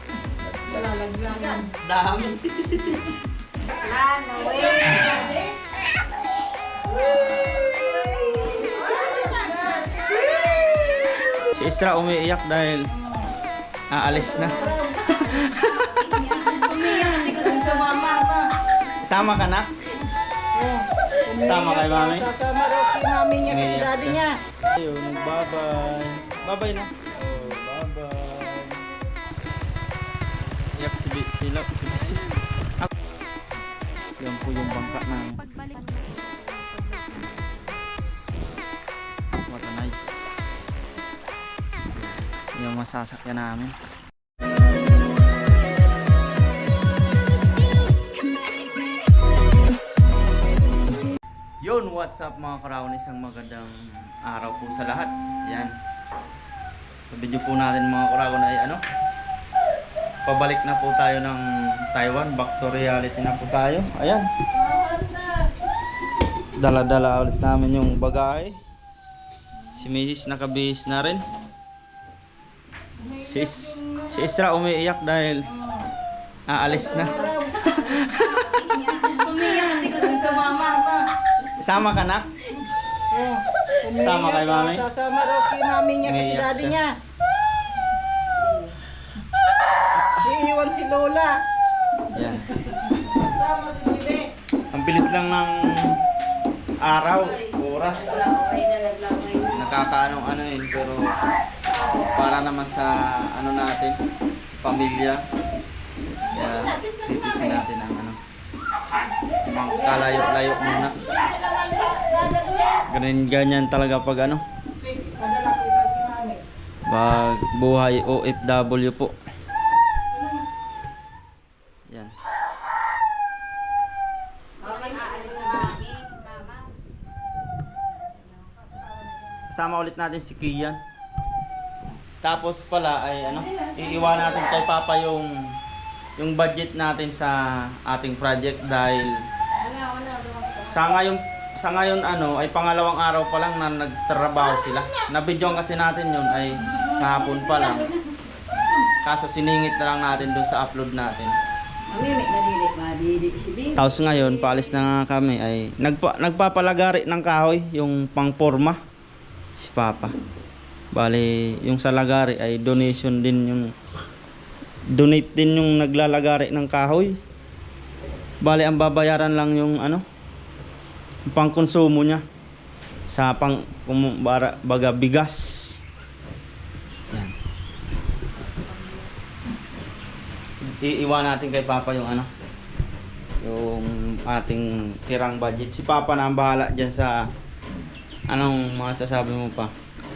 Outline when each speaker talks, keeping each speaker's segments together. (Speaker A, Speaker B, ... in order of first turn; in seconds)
Speaker A: 0.7-1.7, 4.3-5.5, 7.0-10.7, 14.1-18.5, 20.6-24.4, 64.5-65.5, 73.0-74.3, 75.5-75.8, 76.6-81.0, 83.1-86.9, 90.2-91.4, 93.2-94.3, 106.3-107.6, 109.7-112.8, 114.8-116.4, 124.6-125.8, 128.6-129.4, 133.4-134.4, 178.6-179.1
Speaker B: 1.8-3.1, 11.5-12.9, 13.9-14.6, 19.0-19.7, 21.4-22.3, 23.4-28.8, 30.8-32.9, 34.2-35.4, 39.4-40.5, 41.9-43.7, 51.6-55.7, 57.1-58.8, 60.3-64.3, 66.6-68.6, 69.8-71.2, 73.2-75.5, 76.5-78.0, 81.6-82.3, 83.9-84.8, 86.0-86.8, 92.1-92.5, 94.7-95.9, 96.8-98.2, 99.5-101.0, 102.1-104.0, 104.6-105.2, 106.3-108.2, 109.5-111.0, 112.9-114.4, 116.9-119.2, 129.5-130.8, 132.2-135.3, 136.2-139.1, 140.6-147.9, 149.0-151.3, 153.8-158.8, 159.6-160.2, 160.9-163.7, 164.9-167.2, 168.4-170.0, 171.3-172.2, 173.1-175.8, 180.7-182.3, 183.4-187.3, 188.3-189.7
Speaker C: 3.8-5.3, 15.8-18.3, 35.8-37.1, 77.0-80.8, 97.2-99.7, 124.6-126.7, 139.5-141.0, 147.0-147.9, 151.9-154.8